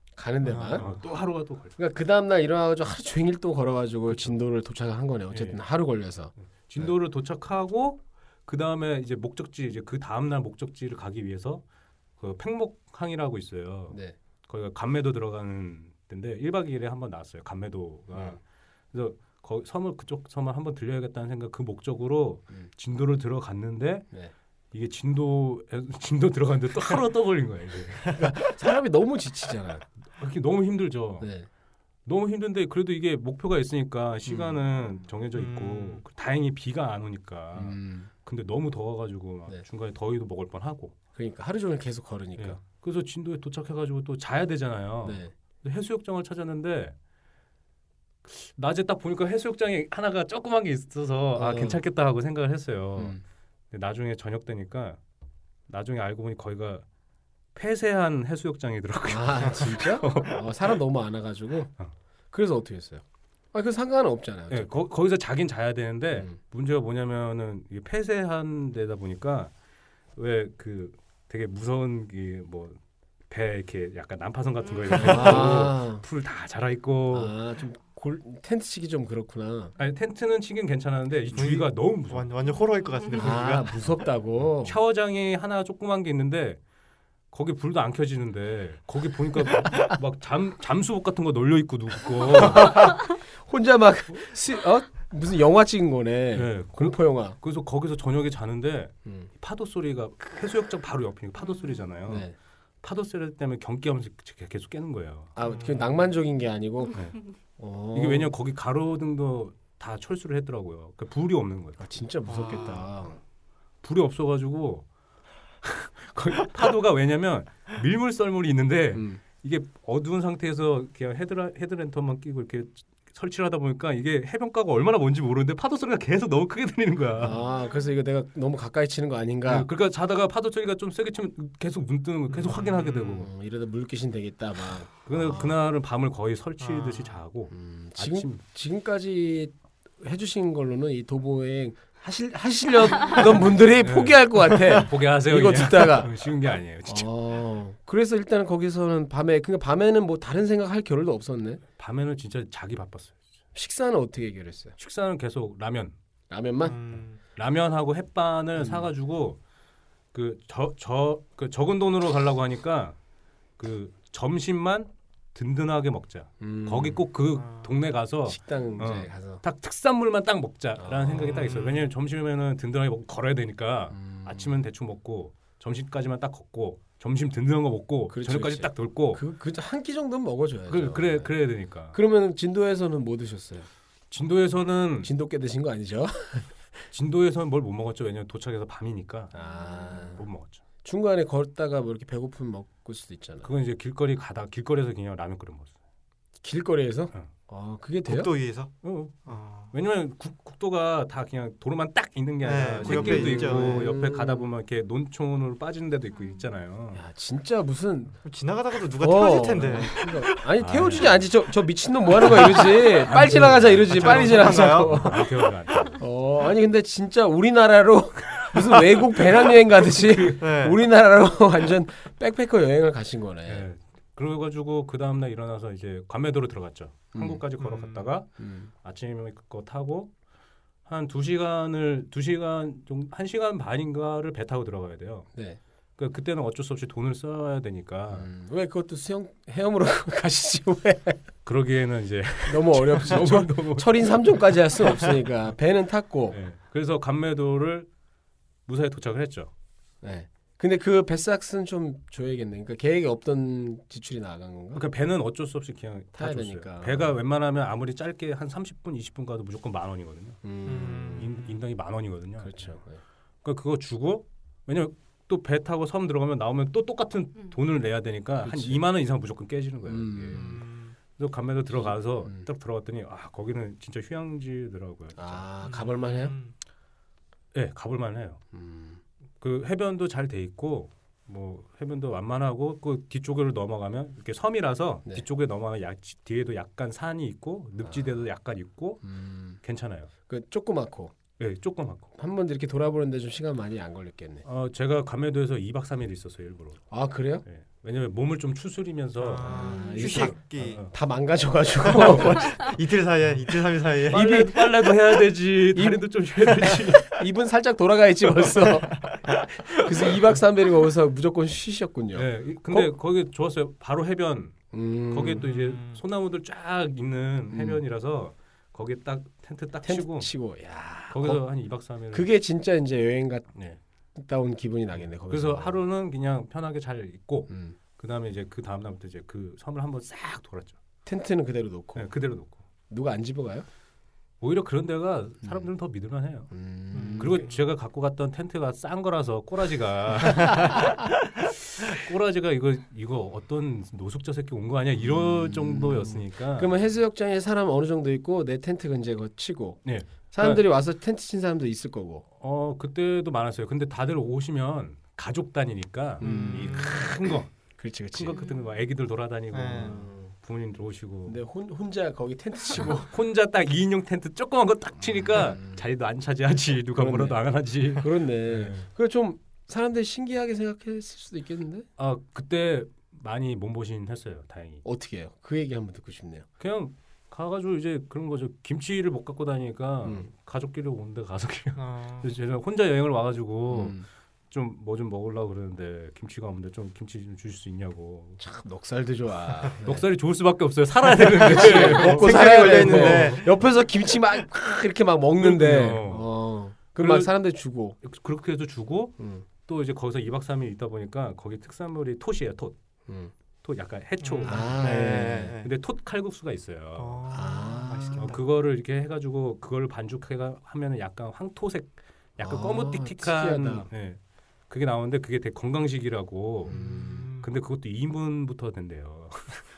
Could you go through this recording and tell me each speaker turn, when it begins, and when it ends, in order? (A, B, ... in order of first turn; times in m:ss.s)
0:00.2-0:00.9 A
0:00.4-0:00.9 B
0:00.8-0:01.8 C
0:01.8-0:06.9 A
0:04.1-0:04.4 C
0:05.3-0:05.6 C
0:06.6-0:11.6 C
0:12.2-0:18.4 C
0:13.9-0:14.2 A
0:18.1-0:18.4 A
0:18.9-0:24.1 C
0:24.7-0:28.1 C
0:28.1-0:29.8 A
0:30.1-0:31.3 C
0:31.2-0:31.5 A
0:32.1-0:40.9 C
0:34.3-0:34.6 A
0:35.4-0:36.0 B
0:37.6-0:38.1 A
0:41.2-0:42.6 A
0:42.4-0:46.9 C
0:45.0-0:45.3 A
0:48.2-0:53.2 C
0:51.4-0:51.8 A
0:53.0-0:53.2 A
0:53.7-0:55.0 C
0:55.7-0:56.8 C
0:57.5-1:00.5 C
0:59.0-1:01.7 A
1:02.3-1:04.7 A
1:04.5-1:09.5 C
1:10.2-1:12.8 C
1:13.3-1:17.4 C
1:14.9-1:16.0 A
1:17.1-1:19.8 A
1:19.8-1:22.3 C
1:21.3-1:24.0 B
1:23.1-1:24.8 A
1:24.4-1:26.6 C
1:27.3-1:32.9 C
1:32.3-1:37.4 A
1:36.3-1:42.3 C
1:42.1-1:42.4 A
1:42.8-1:45.3 C
1:45.4-1:47.0 A
1:45.4-1:45.9 B
1:47.6-1:48.3 A
1:47.9-1:51.8 C
1:51.8-1:53.2 A
1:52.3-1:52.9 B
1:53.8-1:54.9 C
1:55.6-2:07.4 C
1:58.9-1:59.2 A
2:07.2-2:09.7 A
2:09.4-2:13.3 C
2:12.3-2:13.3 B
2:13.2-2:15.5 A
2:15.1-2:18.4 C
2:16.6-2:17.2 B
2:17.5-2:26.2 A
2:23.8-2:27.1 C
2:26.8-2:31.6 A
2:31.8-2:33.2 C
2:33.6-2:34.8 A
2:34.8-2:35.9 C
2:36.3-2:36.8 A
2:36.6-2:37.2 B
2:37.4-2:39.4 C
2:38.6-2:38.9 A
2:40.1-2:43.0 C
2:43.6-2:59.2 C
2:46.4-2:47.0 A
2:47.4-2:47.7 B
2:48.3-2:49.4 A
2:50.8-2:51.5 A
2:51.3-2:51.9 B
2:53.9-2:54.6 A
2:58.1-3:01.3 A
3:00.7-3:02.0 C
3:01.9-3:03.7 A
3:04.1-3:05.1 C
3:05.0-3:06.5 A
3:06.9-3:09.3 C
3:09.3-3:10.2 A
3:10.1-3:10.6 C
3:10.8-3:13.5 A
3:13.4-3:15.7 C
3:16.4-3:18.3 A
3:18.1-3:18.7 B
3:18.8-3:27.0 C
3:19.3-3:19.7 B
3:22.4-3:23.9 B
3:22.8-3:24.5 A
3:26.9-3:28.2 A
3:28.2-3:30.4 B
3:29.0-3:35.3 A
3:30.6-3:31.2 C
3:32.2-3:36.0 C
3:32.4-3:32.6 B
3:33.9-3:35.4 B
3:35.9-3:43.6 A
3:38.5-3:40.4 C
3:40.4-3:40.8 B
3:43.4-3:50.1 C
3:47.1-3:47.4 A
3:47.6-3:48.1 B
3:48.4-3:48.7 A
3:50.9-3:55.3 C
3:56.0-3:58.3 C
3:58.1-4:01.2 A
4:01.4-4:05.0 C
4:02.4-4:06.4 A
4:06.3-4:07.9 C
4:08.6-4:09.5 C
4:10.0-4:14.8 A
4:14.7-4:20.4 C
4:16.1-4:17.1 A
4:20.4-4:21.3 A
4:20.6-4:21.3 B
4:21.2-4:22.8 C
4:22.4-4:23.0 A
4:23.4-4:30.6 C
4:28.4-4:28.8 A
4:29.9-4:30.6 A
4:30.3-4:31.0 B
4:31.1-4:35.4 C
4:31.7-4:32.5 A
4:35.2-4:36.4 A
4:35.6-4:36.6 B
4:37.5-4:38.4 C
4:38.5-4:39.0 A
4:39.4-4:49.0 C
4:49.0-4:49.6 A
4:49.6-4:50.1 C
4:50.3-4:51.1 A
4:51.4-4:52.1 C
4:52.2-4:54.4 A
4:54.4-4:56.8 C
4:56.9-4:57.4 A
4:57.4-5:00.9 C
4:59.2-5:00.8 B
4:59.4-5:02.8 A
5:01.9-5:02.4 C
5:01.9-5:04.4 B
5:04.1-5:05.0 A
5:04.1-5:07.2 C
5:05.7-5:12.9 A
5:12.1-5:14.6 C
5:14.7-5:15.5 A
5:15.1-5:20.3 C
5:15.4-5:16.0 B
5:17.5-5:17.8 A
5:19.8-5:21.4 A
5:21.1-5:22.3 C
5:22.1-5:23.5 A
5:23.5-5:23.8 C
5:24.2-5:25.8 A
5:25.3-5:30.8 C
5:27.5-5:27.8 A
5:31.0-5:32.1 A
5:32.0-5:32.6 C
5:32.9-5:33.6 A
5:34.4-5:36.5 C
5:36.5-5:37.4 A
5:36.9-5:37.6 B
5:37.2-5:46.8 C
5:45.0-5:52.2 A
5:49.8-5:50.6 C
5:52.4-5:57.5 C
5:56.2-5:57.2 A
5:56.2-5:57.1 B
5:57.8-5:58.4 A
5:58.1-6:01.4 C
5:59.5-6:00.0 B
5:59.8-6:00.3 A
6:01.3-6:03.1 A
6:02.9-6:08.9 C
6:05.0-6:05.8 A
6:06.9-6:07.4 A
6:07.9-6:11.9 A
6:12.0-6:14.8 C
6:14.8-6:16.4 A
6:16.6-6:24.0 C
6:20.0-6:20.3 A
6:21.8-6:22.3 B
6:23.7-6:24.1 A
6:24.5-6:28.4 C
6:28.4-6:30.0 A
6:29.8-6:33.4 C
6:31.2-6:33.6 B
6:31.2-6:38.0 A
6:35.4-6:36.3 C
6:37.0-6:37.3 C
6:38.0-6:42.8 C
6:39.2-6:39.4 A
6:43.1-6:43.3 A
6:43.6-6:47.2 C
6:44.2-6:45.7 B
6:44.4-6:45.5 A
6:47.0-6:48.4 B
6:47.3-6:48.3 A
6:48.2-6:54.2 C
6:52.4-6:53.9 A
6:54.7-6:56.8 C
6:56.6-6:57.3 A
6:56.7-6:57.5 B
6:57.4-6:59.6 C